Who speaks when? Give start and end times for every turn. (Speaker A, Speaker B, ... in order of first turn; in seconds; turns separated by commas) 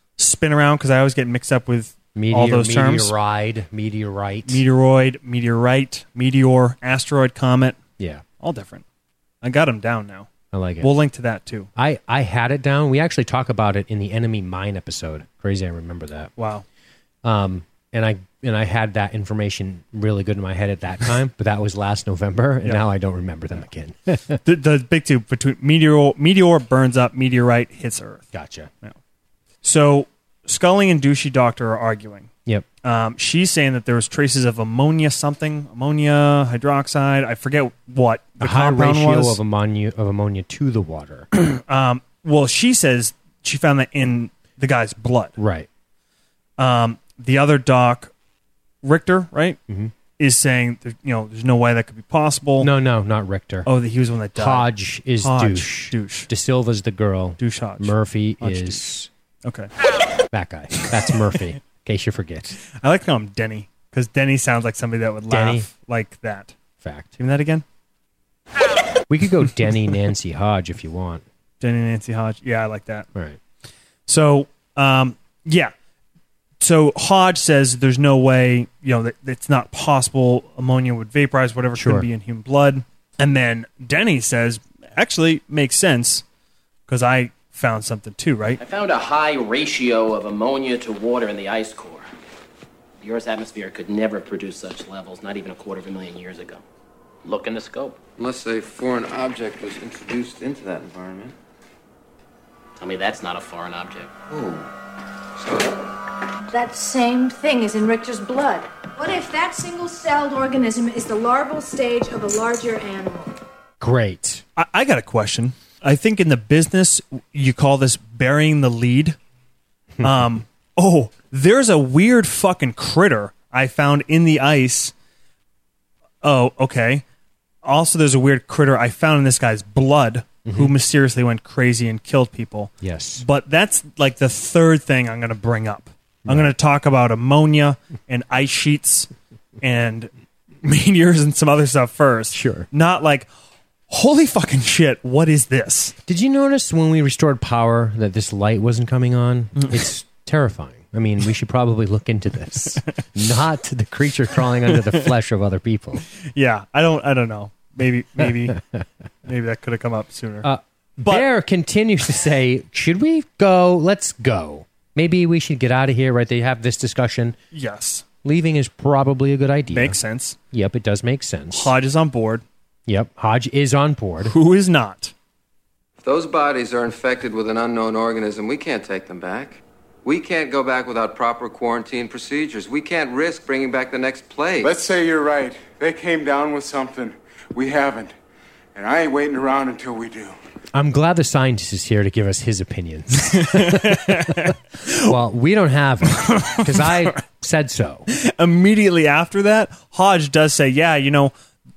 Speaker A: 0.2-3.1, Speaker B: 2.1-4.6, Speaker A: 4.5-7.8, Speaker A: 8.4-8.8, Speaker A: 9.4-10.3, Speaker B: 10.5-10.9, Speaker A: 10.8-11.7, Speaker B: 11.8-16.3, Speaker A: 16.4-16.6, Speaker B: 17.2-24.4, Speaker A: 24.4-28.3, Speaker B: 28.3-28.7, Speaker A: 29.6-32.3, Speaker A: 32.8-39.4, Speaker B: 38.4-41.3, Speaker A: 41.3-45.4, Speaker B: 45.4-45.7, Speaker A: 46.6-48.1, Speaker A: 48.8-49.6, Speaker B: 49.7-49.9, Speaker A: 50.2-52.7, Speaker B: 52.6-53.7, Speaker A: 53.6-56.3, Speaker B: 54.4-59.1, Speaker A: 57.4-58.8, Speaker A: 59.4-59.7, Speaker B: 60.3-62.6, Speaker A: 60.9-61.4, Speaker A: 62.7-66.5, Speaker B: 65.3-65.7, Speaker B: 66.8-67.1, Speaker A: 67.2-67.7, Speaker B: 69.1-71.2, Speaker A: 71.6-73.1, Speaker B: 73.2-73.4, Speaker A: 74.1-75.7, Speaker A: 76.6-86.2, Speaker B: 81.8-82.1, Speaker A: 86.9-88.6, Speaker C: 88.6-92.1, Speaker C: 93.0-96.6, Speaker C: 97.2-98.0, Speaker D: 98.2-101.3, Speaker C: 102.8-104.1, Speaker D: 104.3-104.7, Speaker D: 105.4-105.8, Speaker E: 106.5-113.3, Speaker B: 113.8-114.4, Speaker A: 114.6-119.2, Speaker A: 120.0-124.9, Speaker A: 126.2-127.0, Speaker A: 127.6-139.1, Speaker B: 130.5-130.7, Speaker B: 132.8-133.2, Speaker B: 136.3-136.5, Speaker A: 139.6-143.3, Speaker B: 142.3-142.7, Speaker A: 143.9-145.9, Speaker B: 146.1-156.1, Speaker A: 154.7-155.1, Speaker A: 156.3-158.6, Speaker A: 159.2-161.3, Speaker B: 160.4-167.4, Speaker A: 167.5-168.1, Speaker B: 168.2-170.0, Speaker A: 169.7-170.4, Speaker B: 170.5-171.7, Speaker A: 171.5-172.4, Speaker B: 172.9-174.3, Speaker A: 174.2-175.1, Speaker D: 176.0-184.7, Speaker F: 184.6-188.2, Speaker F: 188.7-190.4, Speaker B: 190.8-198.1, Speaker A: 193.3-195.2, Speaker A: 196.1-197.2, Speaker A: 198.1-201.3